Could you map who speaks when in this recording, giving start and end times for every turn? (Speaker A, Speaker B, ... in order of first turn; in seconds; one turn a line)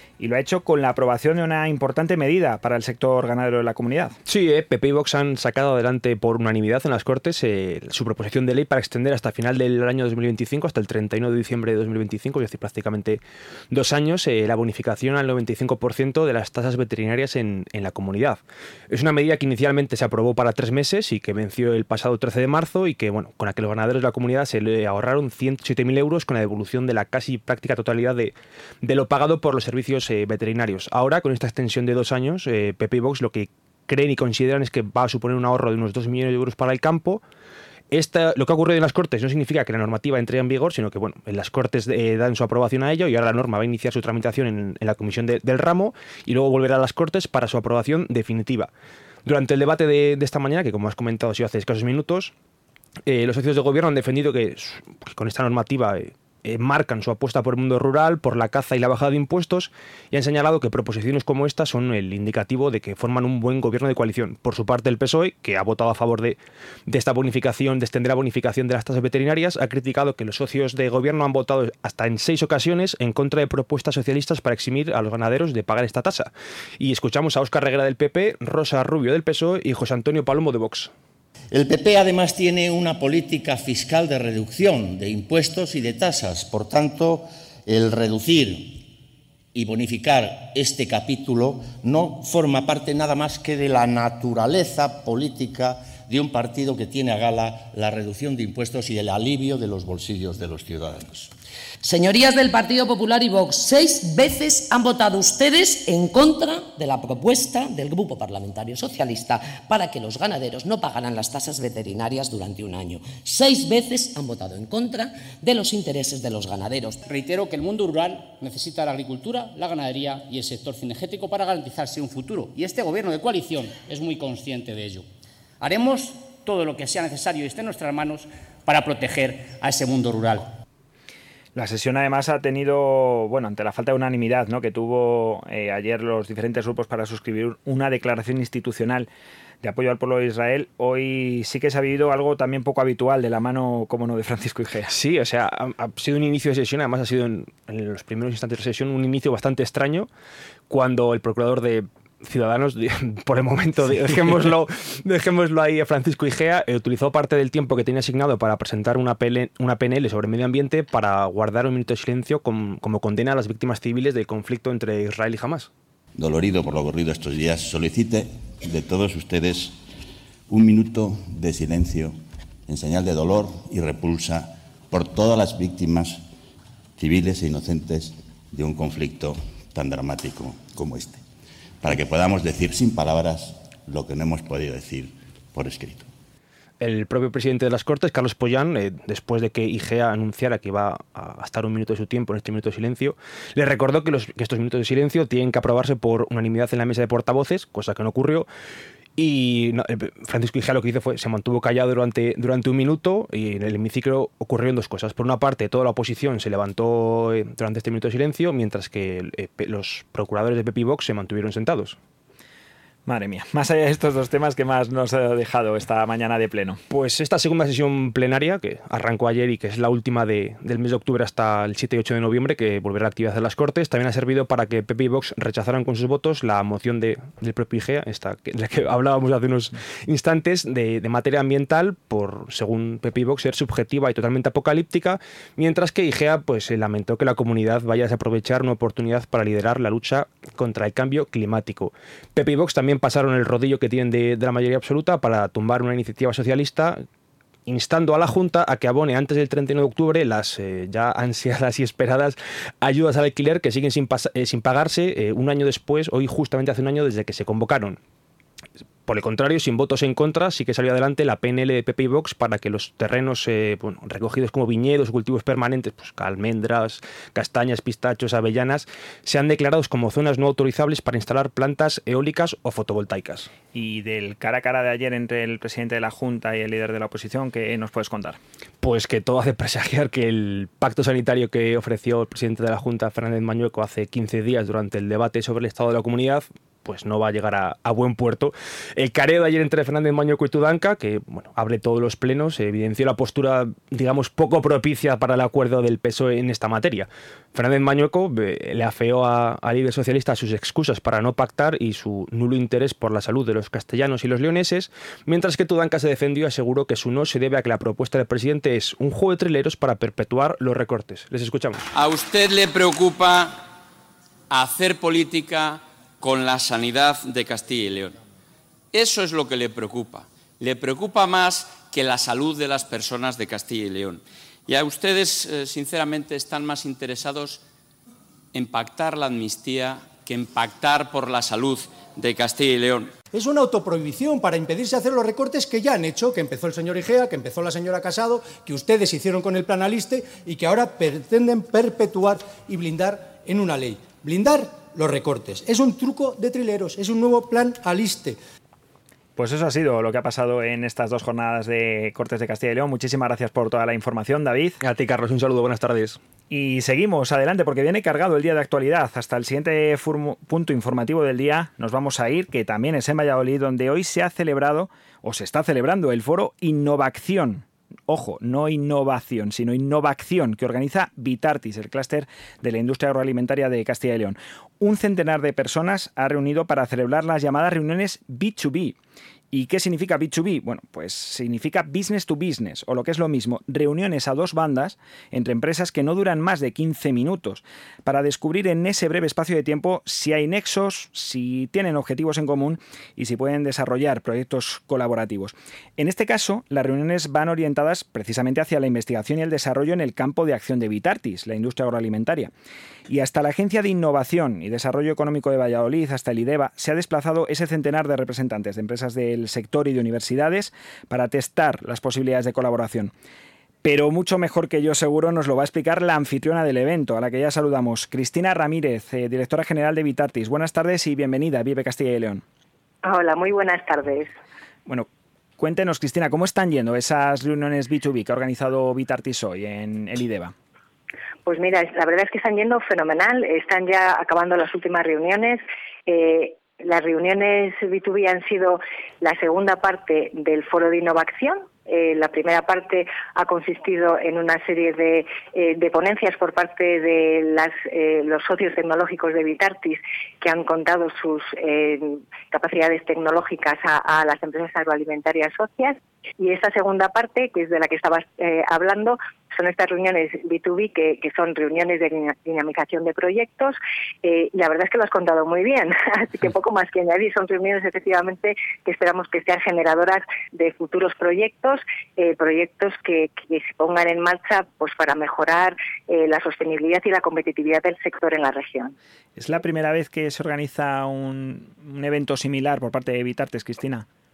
Speaker A: 0.2-4.2
Speaker B: 4.3-37.2
Speaker B: 37.9-48.7
Speaker B: 49.2-52.3
Speaker B: 53.1-66.4
Speaker B: 66.9-80.9
Speaker C: 81.5-88.8
Speaker C: 89.5-101.3
Speaker D: 101.8-117.0
Speaker E: 117.1-125.1
Speaker E: 125.6-130.5
Speaker A: 131.6-139.1
Speaker A: 139.6-144.9
Speaker B: 144.9-150.1
Speaker B: 150.7-165.7
Speaker F: 166.2-169.8
Speaker F: 170.5-176.2
Speaker F: 177.0-181.2
Speaker F: 181.8-186.1
Speaker B: 186.8-198.5
Speaker B: 199.2-212.0
Speaker A: 213.1-216.8
Speaker B: 216.9-247.0
Speaker B: 247.7-258.0
Speaker B: 259.1-273.5
Speaker A: 273.7-278.4
Speaker B: 278.8-311.9
Speaker G: 311.9-313.6
Speaker G: 314.5-318.2
Speaker G: 318.9-327.6
Speaker G: 328.5-333.1
Speaker H: 333.3-348.4
Speaker A: 349.4-354.8
Speaker B: 354.8-356.2
Speaker A: 356.5-379.0
Speaker A: 379.5-402.5
Speaker A: 403.1-413.1
Speaker A: 413.8-422.4
Speaker I: 423.0-424.3
Speaker A: 425.6-430.5
Speaker I: 431.5-478.9
Speaker A: 479.4-484.1